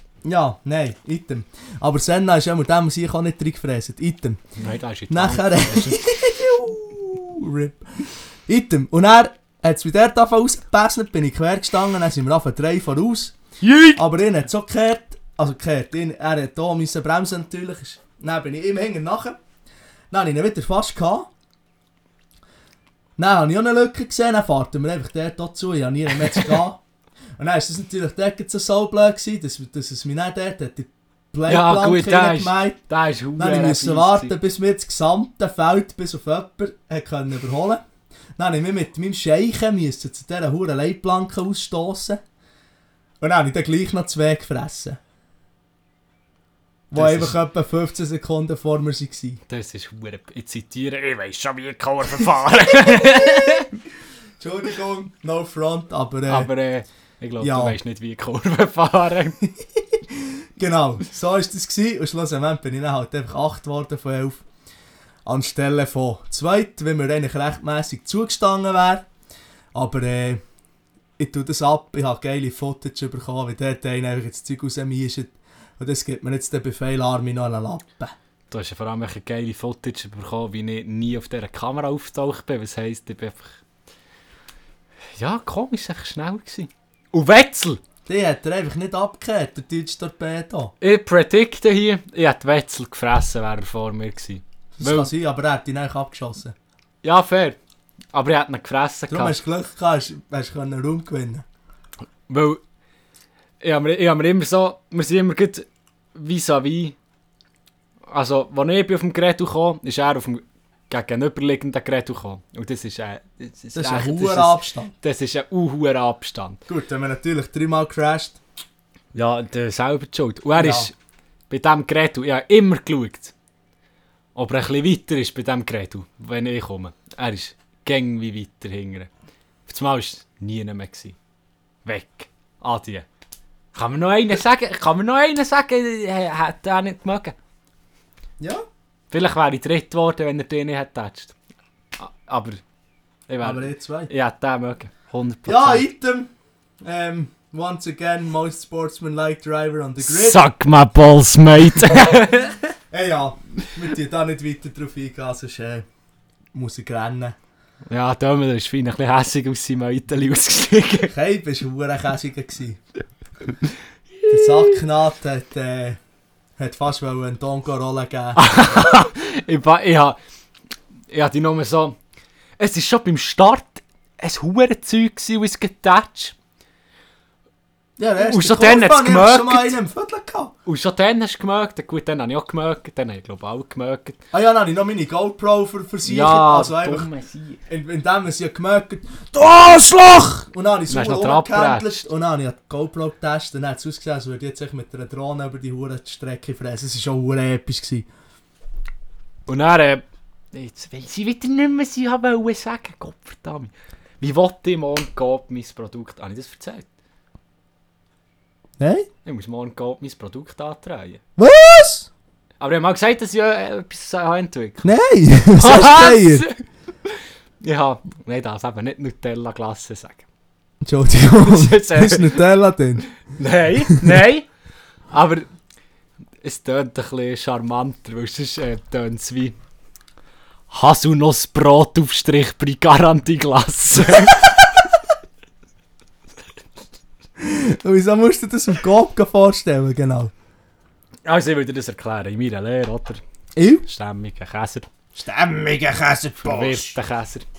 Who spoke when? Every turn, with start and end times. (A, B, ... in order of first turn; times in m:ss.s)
0:00.2-0:04.4 A
0:04.6-0:06.0 B
0:05.1-0:13.4 A
0:13.6-0:14.0 B
0:14.0-0:19.4 A
0:20.1-0:21.3 A
0:23.2-0:26.8 A
0:27.4-0:32.8 A
0:31.5-0:34.3 B
0:33.4-0:37.8 A
0:38.4-0:42.2 A
0:43.2-0:45.0 A
0:46.9-0:49.4 A
0:46.9-0:47.4 B
0:49.5-0:53.7 B
0:52.7-0:53.6 A
0:54.4-0:56.5 A
0:56.3-0:59.4 B
0:57.4-0:57.8 A
1:00.1-1:04.4 A
1:05.2-1:09.0 A
1:09.7-1:10.4 A
1:11.2-1:18.1 A
1:18.5-1:23.6 B
1:25.2-1:27.8 B
1:28.0-1:30.7 A
1:30.8-1:35.1 B
1:34.8-1:36.5 A
1:37.0-1:37.6 B
1:38.1-1:39.4 B
1:39.1-1:41.4 A
1:42.3-1:42.6 B
1:43.6-1:47.0 B
1:48.1-1:56.6 B
1:53.7-1:54.9 A
1:56.7-1:58.4 A
1:59.1-2:00.9 B
2:00.6-2:00.9 A
2:01.5-2:03.3 B
2:04.3-2:09.1 B
2:09.7-2:11.2 B
2:11.8-2:13.0 B
2:13.7-2:17.4 B
2:19.1-2:21.3 B
2:22.0-2:22.6 B
2:23.3-2:25.8 B
2:23.4-2:24.1 A
2:25.4-2:26.3 A
2:26.8-2:30.4 A
2:30.0-2:32.7 B
2:32.9-2:35.8 A
2:36.5-2:37.4 A
2:37.9-2:41.1 B
2:41.1-2:42.8 A
2:44.2-2:44.8 B
2:44.3-2:46.0 A
2:46.6-2:48.4 A
2:48.4-2:50.2 B
2:51.1-2:52.0 B
2:52.6-2:56.3 B
2:58.0-3:00.5 A
2:58.2-2:59.8 B
3:00.6-3:04.2 B
3:04.3-3:07.1 A
3:06.0-3:07.6 B
3:07.7-3:18.0 A
3:10.9-3:12.0 B
3:19.5-3:26.8 B
3:28.8-3:29.1 A
3:29.2-3:31.2 B
3:31.4-3:32.1 A
3:32.6-3:34.9 B
3:34.8-3:36.4 A
3:35.6-3:40.2 B
3:40.8-3:43.1 A
3:41.4-3:42.4 B
3:43.3-3:44.5 B
3:45.1-3:45.5 B
3:46.4-3:49.6 B
3:50.7-3:54.6 B
3:54.1-3:54.8 A
3:57.4-4:00.3 A
4:01.2-4:03.2 B
4:03.6-4:03.8 A
4:03.8-4:04.9 B
4:05.1-4:07.0 A
4:06.4-4:07.4 B